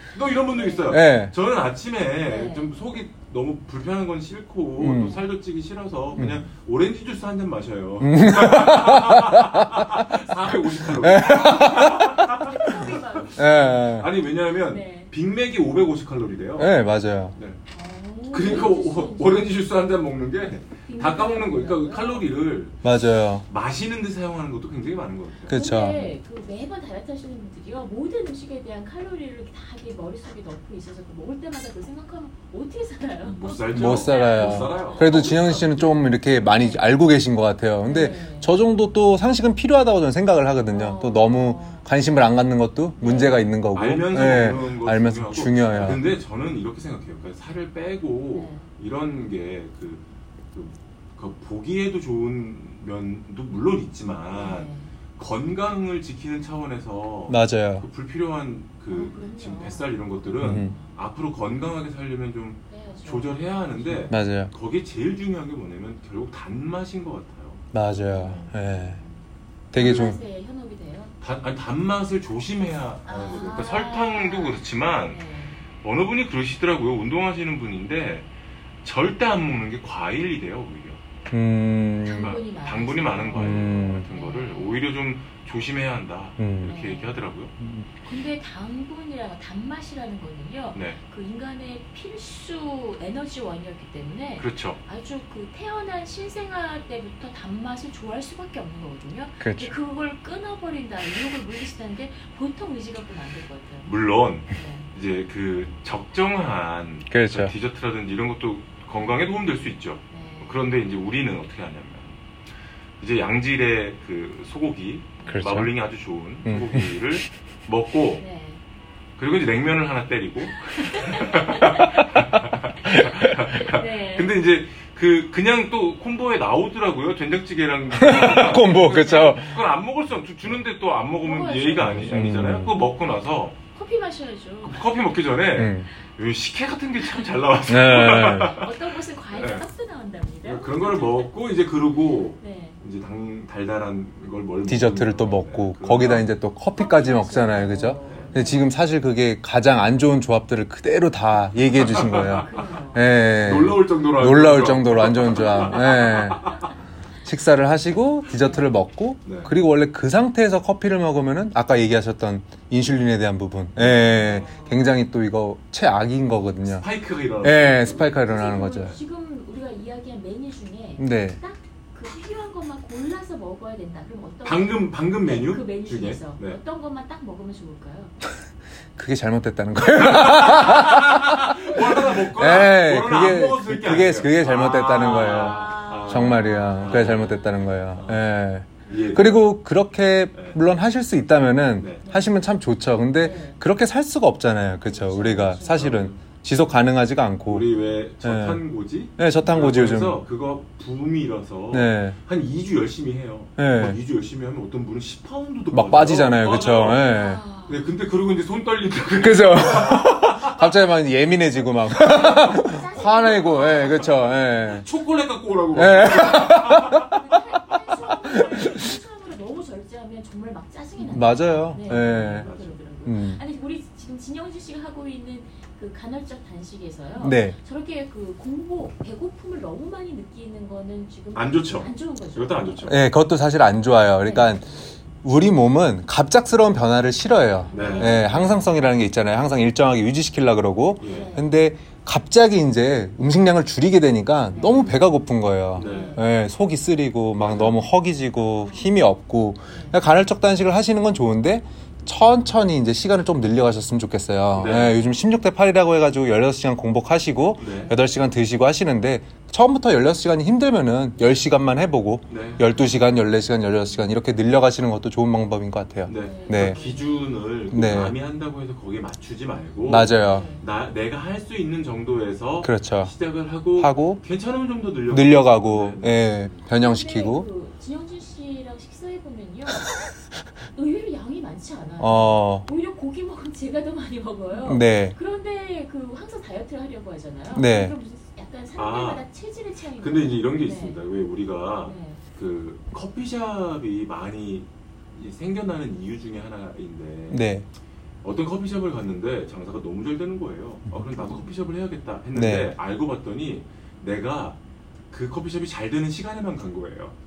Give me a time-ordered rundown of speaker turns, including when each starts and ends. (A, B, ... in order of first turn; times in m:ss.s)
0:00.1-0:12.7 A
0:00.5-0:00.9 B
0:00.9-0:01.3 C
0:02.2-0:02.8 B
0:04.8-0:05.2 C
0:06.2-0:06.4 C
0:08.0-0:09.6 C
0:10.8-0:12.8 C
0:11.6-0:14.0 B
0:13.4-0:14.1 C
0:13.8-0:16.8 A
0:14.5-0:15.1 B
0:16.6-0:17.3 C
0:17.3-0:17.6 A
0:17.7-0:19.6 B
0:18.3-0:22.9 A
0:20.8-0:22.3 B
0:22.8-0:23.4 C
0:23.5-0:25.6 A
0:25.5-0:26.1 C
0:25.5-0:36.9 B
0:33.2-0:35.6 A
0:33.7-0:46.0 C
0:37.8-0:38.6 B
0:40.7-0:41.9 B
0:43.0-0:43.5 B
0:43.7-1:07.6 A
0:48.3-0:48.6 B
0:54.3-0:54.9 B
0:57.3-0:57.8 C
0:58.9-1:00.9 B
1:00.4-1:00.7 C
1:02.7-1:04.0 B
1:04.1-1:04.5 C
1:07.7-1:09.0 C
1:08.1-1:09.2 B
1:09.7-1:10.2 C
1:09.7-1:11.1 B
1:09.8-1:10.1 A
1:11.2-1:15.2 A
1:13.0-1:15.6 B
1:15.8-1:18.3 A
1:18.8-1:21.0 A
1:21.3-1:22.4 C
1:22.0-1:24.9 B
1:22.2-1:27.5 A
1:23.3-1:24.1 C
1:26.4-1:26.7 C
1:26.6-1:27.3 B
1:27.6-1:27.8 C
1:28.0-1:43.9 B
1:30.7-1:31.0 A
1:34.4-1:34.8 A
1:39.4-1:39.7 C
1:43.8-1:52.2 A
1:44.5-1:44.9 B
1:47.1-1:47.5 C
1:50.1-1:50.6 B
1:53.0-1:58.2 A
1:55.3-1:55.7 C
1:56.4-1:57.1 C
1:58.2-1:58.6 B
1:59.2-2:13.6 A
2:00.6-2:02.0 B
2:02.9-2:03.3 C
2:03.5-2:04.4 B
2:07.9-2:09.6 C
2:11.1-2:12.1 B
2:11.8-2:12.7 C
2:13.7-2:14.9 B
2:14.6-2:19.6 A
2:15.5-2:15.9 C
2:17.7-2:18.6 C
2:18.0-2:21.3 B
2:20.4-2:26.3 A
2:22.4-2:22.8 B
2:24.6-2:36.6 C
2:26.7-2:28.7 B
2:28.1-2:28.4 A
2:31.8-2:32.5 A
2:32.3-2:33.3 B
2:33.4-2:36.6 A
2:35.6-2:36.2 B
2:37.2-2:46.8 C
2:39.2-2:39.5 A
2:43.8-2:44.1 A
2:44.1-2:44.8 B
2:46.7-2:48.0 A
2:47.4-2:48.9 C
2:47.6-2:58.2 B
2:51.0-2:51.4 C
2:54.4-2:56.6 A
2:59.0-3:18.6 C
2:59.8-3:07.3 A
3:05.0-3:07.7 B
3:08.0-3:08.3 A
3:08.9-3:09.4 A
3:11.8-3:12.1 A
3:12.0-3:12.3 B
3:13.2-3:13.6 B
3:14.8-3:15.9 B
3:15.6-3:16.2 A
3:17.5-3:27.0 A
3:19.2-3:20.2 C
3:21.7-3:22.2 C
3:23.6-3:24.0 C
3:25.7-3:27.4 C
3:26.7-3:27.8 B
3:27.6-3:30.7 A
3:29.2-3:34.8 C
3:31.9-3:32.4 A
3:31.9-3:34.4 B
3:33.6-3:37.2 A
3:35.7-3:37.1 C
3:37.0-3:52.9 B
3:38.3-3:38.9 C
3:41.0-3:42.5 C
3:41.8-3:42.8 A
3:43.0-3:43.4 C
3:47.2-3:47.6 C
3:51.3-3:53.0 A
3:52.8-4:26.8 C
3:54.2-3:54.6 B
3:57.7-3:58.7 B
3:57.7-3:58.5 A
4:01.0-4:01.3 A
4:01.0-4:01.5 B
4:04.5-4:04.9 B
4:04.6-4:04.9 A
4:05.7-4:06.2 A
4:05.8-4:06.2 B
4:07.4-4:07.8 A
4:09.7-4:10.0 B
4:14.6-4:15.0 A
4:17.6-4:17.9 A
4:17.7-4:18.0 B
4:22.3-4:22.6 A
4:22.4-4:23.6 B
4:26.1-4:36.6 A
4:26.1-4:27.3 B
4:27.7-4:28.1 C
4:29.9-4:30.5 C
4:30.0-4:30.6 B
4:32.6-4:33.1 C
4:33.6-4:34.2 C
4:35.1-4:37.5 C
4:36.7-4:40.0 B
4:40.7-4:51.0 B
4:42.0-4:42.6 C
4:44.6-4:45.2 C
4:47.5-4:48.0 C
4:48.7-4:49.2 A
4:50.0-4:57.5 A
4:51.8-4:52.2 B
4:57.3-4:57.6 C
4:58.2-5:04.6 A
5:01.2-5:01.5 B
5:02.3-5:02.7 C
5:05.1-5:07.1 A